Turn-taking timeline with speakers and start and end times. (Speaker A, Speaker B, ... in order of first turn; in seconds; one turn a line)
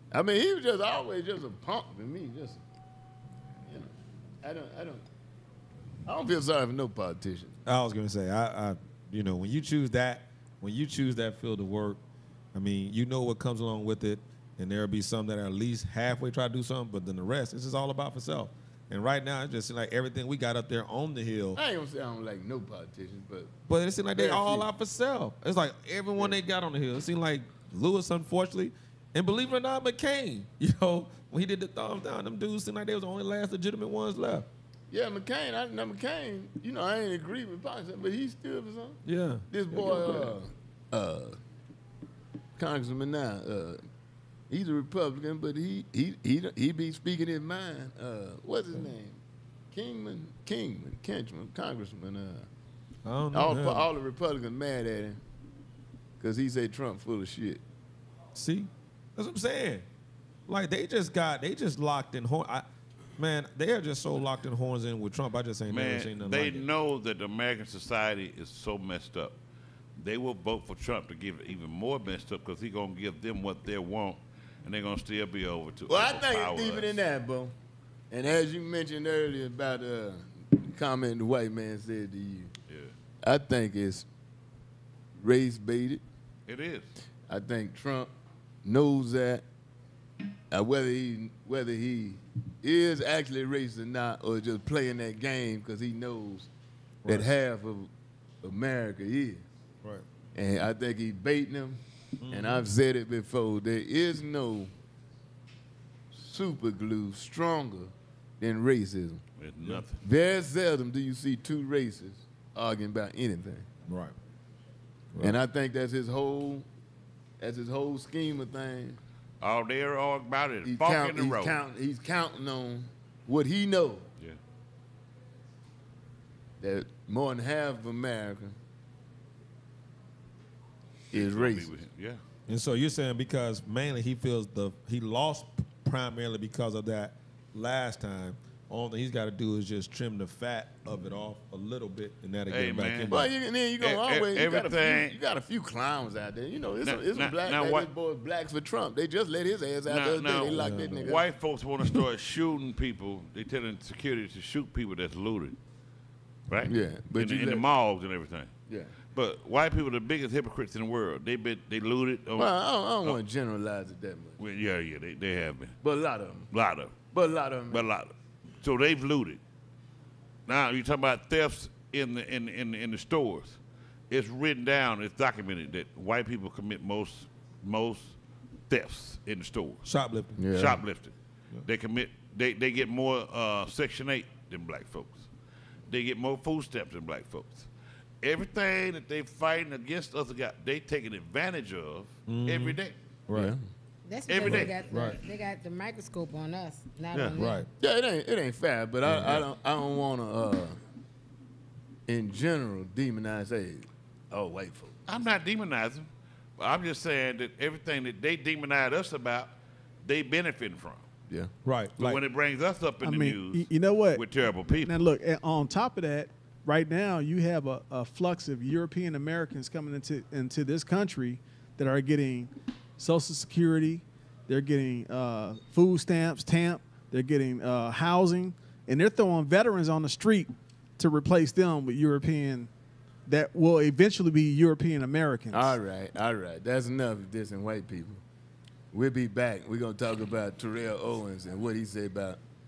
Speaker A: 0.1-2.6
Speaker A: 3.7-5.0
Speaker A: 6.1-7.5
Speaker B: 7.7-12.0
Speaker B: 12.5-21.6
Speaker A: 21.6-23.5
Speaker B: 23.7-34.5
Speaker A: 24.1-24.7
Speaker A: 34.9-41.4
Speaker B: 39.0-40.3
Speaker A: 42.6-43.8
Speaker A: 44.5-49.2
Speaker A: 49.7-52.5
Speaker B: 53.0-53.9
Speaker A: 53.3-55.2
Speaker A: 56.2-57.6
Speaker B: 58.3-59.9
Speaker B: 60.5-62.7
Speaker B: 63.2-66.7
Speaker C: 65.7-69.4
Speaker C: 70.0-77.0
Speaker A: 75.9-77.5
Speaker A: 78.1-82.5
Speaker A: 83.2-84.1
Speaker A: 85.2-86.0
Speaker C: 86.5-86.9
Speaker A: 87.3-88.1
Speaker A: 88.6-89.5
Speaker A: 90.5-96.5
Speaker B: 97.0-97.3
Speaker A: 97.1-97.9
Speaker A: 98.4-99.4
Speaker A: 100.3-101.8
Speaker B: 102.2-102.7
Speaker A: 102.3-104.7
Speaker A: 106.1-109.2
Speaker C: 109.4-110.0
Speaker A: 109.9-113.7
Speaker B: 113.9-114.1
Speaker B: 115.1-115.4
Speaker A: 115.2-116.7
Speaker A: 117.4-119.0
Speaker C: 119.4-121.6
Speaker A: 120.6-124.1
Speaker A: 126.6-128.6
Speaker A: 131.1-131.7
Speaker C: 131.1-132.2
Speaker B: 132.5-143.3
Speaker C: 142.5-143.2
Speaker A: 143.1-151.2
Speaker C: 143.8-145.1
Speaker C: 146.8-147.9
Speaker C: 149.9-155.6
Speaker B: 150.5-151.2
Speaker C: 156.5-158.5
Speaker A: 156.7-157.7
Speaker A: 158.7-158.9
Speaker C: 159.1-163.2
Speaker A: 162.4-164.4
Speaker C: 164.4-165.8
Speaker A: 165.8-166.5
Speaker C: 166.5-166.9
Speaker A: 167.1-167.9
Speaker C: 167.7-169.4
Speaker C: 170.5-173.6
Speaker C: 174.1-178.2
Speaker C: 178.7-179.9
Speaker B: 179.8-180.4
Speaker A: 180.4-180.8
Speaker C: 180.5-185.3
Speaker C: 185.9-187.7
Speaker C: 188.2-193.0
Speaker B: 192.3-193.6
Speaker A: 193.3-193.6
Speaker D: 194.1-197.7
Speaker C: 194.3-195.2
Speaker B: 194.4-195.2
Speaker B: 197.3-197.7
Speaker A: 197.8-200.8
Speaker B: 199.0-199.4
Speaker A: 202.1-205.0
Speaker C: 205.1-209.5
Speaker C: 210.0-211.1
Speaker B: 211.7-212.2
Speaker C: 212.0-215.0
Speaker E: 213.0-232.7
Speaker E: 233.3-235.8
Speaker A: 235.5-238.2
Speaker A: 238.9-242.4